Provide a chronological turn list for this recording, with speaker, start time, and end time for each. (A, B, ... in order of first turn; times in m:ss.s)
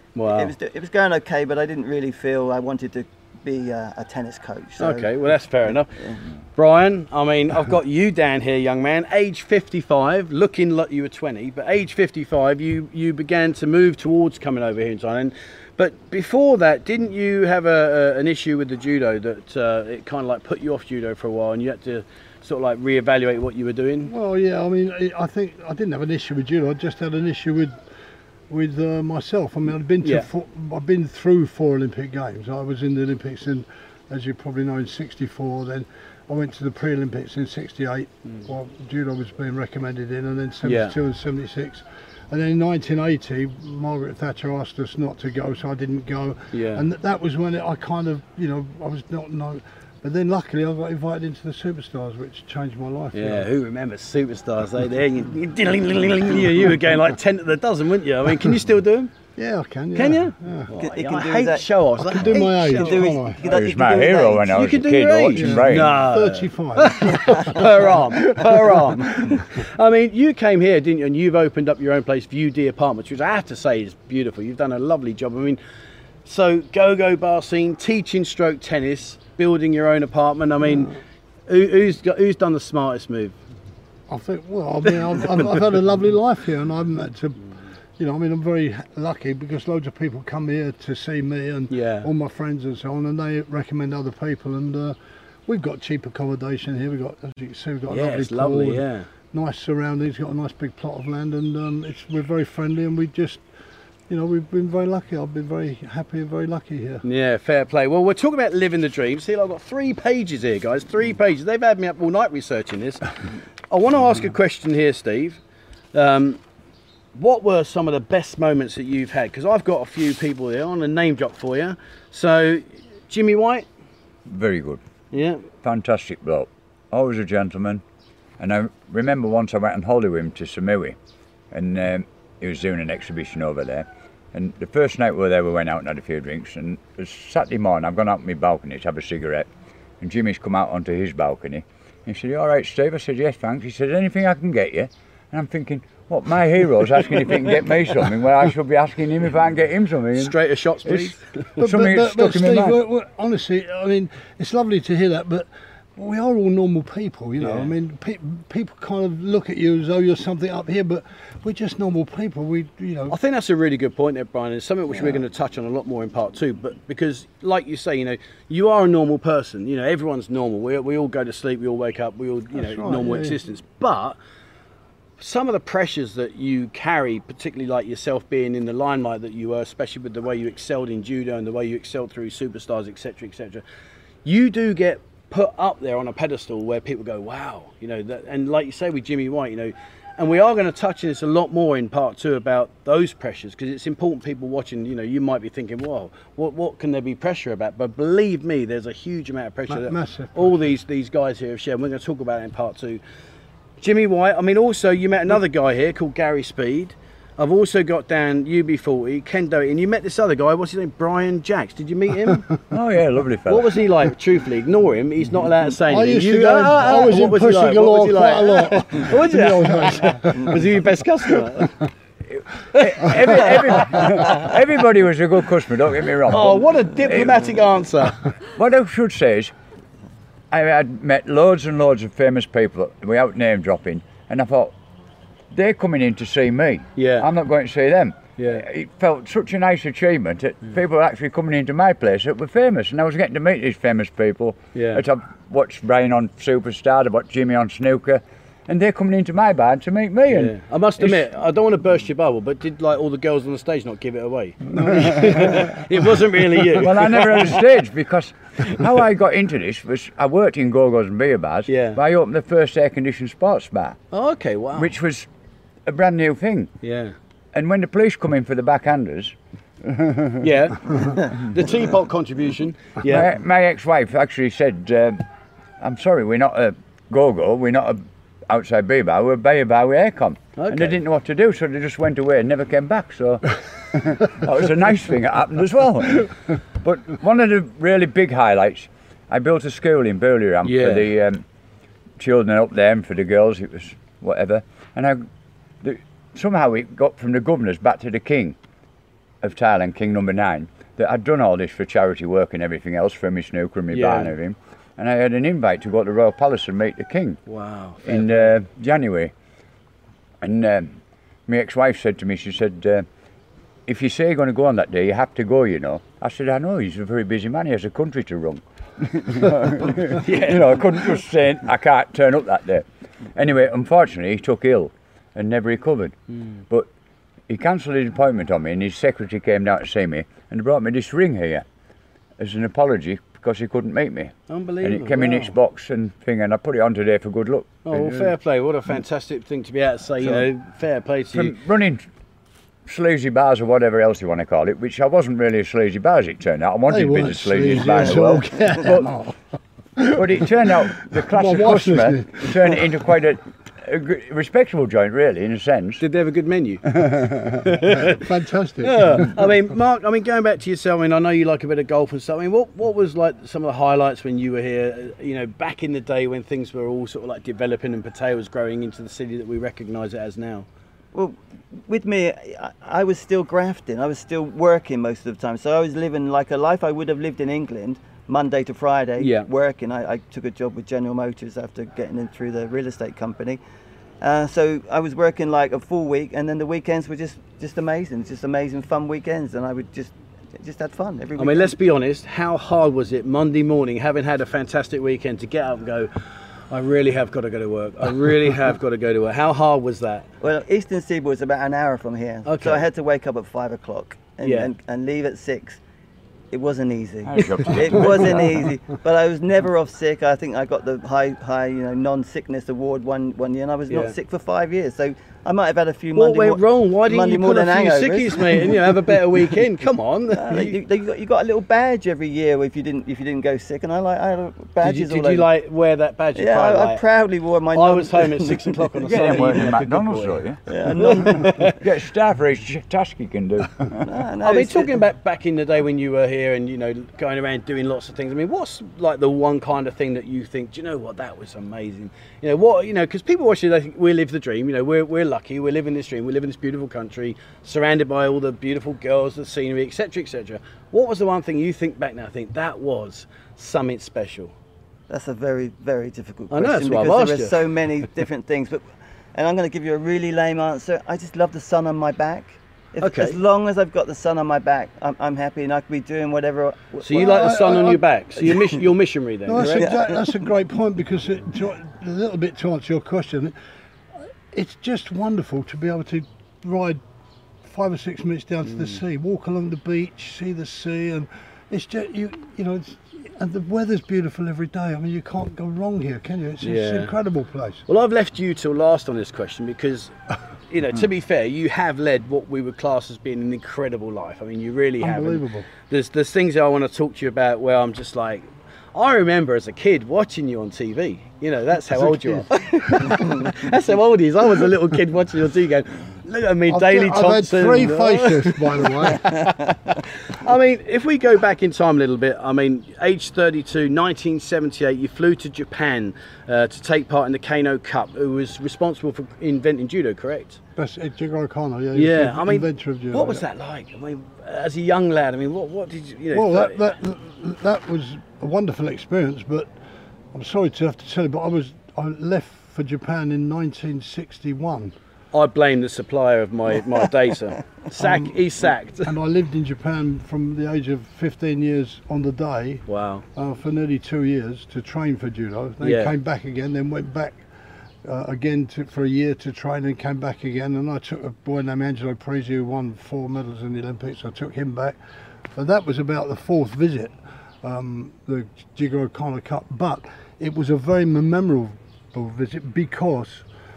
0:00.1-0:00.5 A
0:00.2-0:05.1 B
0:04.8-0:05.9 A
0:06.6-0:24.1 A
0:24.0-0:27.8 C
0:28.5-0:53.5 C
0:30.0-0:30.3 A
0:40.6-0:41.0 A
0:46.5-0:46.8 A
0:53.1-0:59.1 A
0:59.4-1:00.7 C
0:59.9-1:03.1 A
1:00.8-1:01.7 B
1:02.0-1:03.4 C
1:02.3-1:04.5 B
1:03.4-1:06.0 D
1:04.5-1:15.6 A
1:05.3-1:07.8 C
1:07.4-1:07.7 B
1:16.2-1:21.0 A
1:21.5-1:23.4 A
1:24.1-1:43.4 C
1:31.7-1:32.1 A
1:37.9-1:39.1 A
1:44.1-1:47.0 C
1:47.0-1:53.1 A
1:53.7-1:55.4 A
1:55.9-1:56.4 A
1:57.1-2:03.6 A
2:04.3-2:04.8 D
2:05.1-2:05.4 A
2:05.6-2:07.8 D
2:08.4-2:11.0 D
2:11.5-2:19.5 D
2:20.0-2:32.8 D
2:30.1-2:31.6 A
2:31.6-2:43.2 C
2:37.4-2:37.7 A
2:43.1-2:54.2 A
2:52.5-2:53.4 C
2:55.2-3:03.6 A
3:04.2-3:23.0 A
3:19.7-3:20.6 C
3:23.8-3:32.5 A
3:32.7-3:33.8 D
3:33.5-3:41.8 A
3:35.9-3:40.6 C
3:42.3-3:47.5 D
3:42.7-3:44.5 A
3:46.3-3:48.2 A
3:48.4-3:49.5 D
3:50.5-3:54.7 D
3:55.5-4:11.2 D
3:57.0-3:57.3 A
3:58.4-3:58.6 A
4:04.7-4:05.0 A
4:10.3-4:17.6 A
4:14.7-4:15.7 C
4:14.9-4:15.6 D
4:16.7-4:24.0 D
4:21.7-4:22.0 A
4:24.1-4:24.9 A
4:24.8-4:25.3 D
4:25.8-4:26.7 D
4:26.8-4:27.1 A
4:27.5-4:30.4 D
4:30.4-4:33.3 A
4:33.0-4:35.2 D
4:35.8-4:51.4 D
4:40.6-4:41.0 A
4:50.6-4:51.1 A
4:52.2-4:55.2 D
4:55.8-4:58.6 D
4:59.4-5:07.4 D
5:03.9-5:04.3 A
5:07.5-5:08.5 A
5:08.0-5:09.3 D
5:10.4-5:13.0 D
5:13.9-5:26.2 D
5:20.1-5:21.2 A
5:27.5-5:31.6 D
5:32.4-5:37.8 D
5:34.5-5:35.5 A
5:37.8-5:41.5 A
5:37.9-5:38.3 C
5:41.3-5:42.0 D
5:42.8-5:49.1 D
5:46.9-5:49.4 C
5:50.0-5:52.8 C
5:50.1-5:56.0 D
5:56.0-5:58.3 A
5:57.1-5:57.5 D
5:57.8-5:59.4 C
5:58.8-6:10.7 A
6:11.1-6:23.6 B
6:19.2-6:19.5 A
6:24.2-6:31.7 B
6:31.4-6:36.1 A
6:36.7-6:40.3 A
6:40.4-6:45.8 B
6:42.4-6:42.8 A
6:44.4-6:44.7 A
6:46.5-6:58.8 B
6:47.3-6:48.6 D
6:53.9-6:54.2 A
6:56.2-7:00.8 A
7:00.3-7:05.5 B
7:04.8-7:07.0 A
7:06.3-7:08.8 B
7:07.7-7:10.4 A
7:09.0-7:10.6 D
7:10.7-7:11.7 B
7:10.9-7:11.8 A
7:11.2-7:14.0 D
7:14.0-7:14.9 B
7:14.4-7:34.5 A
7:35.1-7:38.8 B
7:36.5-7:37.6 A
7:39.3-7:47.8 B
7:43.0-7:43.4 A
7:47.0-7:49.9 A
7:47.2-7:48.6 C
7:49.5-7:53.5 C
7:49.6-7:50.3 B
7:54.2-7:57.0 C
7:57.6-8:07.8 C
7:58.7-7:59.0 A
8:06.6-8:07.1 A
8:07.9-8:10.1 A
8:10.7-8:40.6 A
8:15.0-8:15.7 C
8:21.9-8:23.2 C
8:23.1-8:23.5 B
8:26.7-8:29.3 C
8:40.8-8:43.4 C
8:41.9-8:46.9 A
8:46.3-8:49.7 C
8:50.3-8:54.9 C
8:55.3-8:59.1 A
8:58.0-8:58.4 C
8:59.0-9:02.8 C
9:02.9-9:03.2 A
9:03.3-9:07.4 C
9:05.8-9:06.1 A
9:08.0-9:15.0 C
9:15.5-9:23.4 C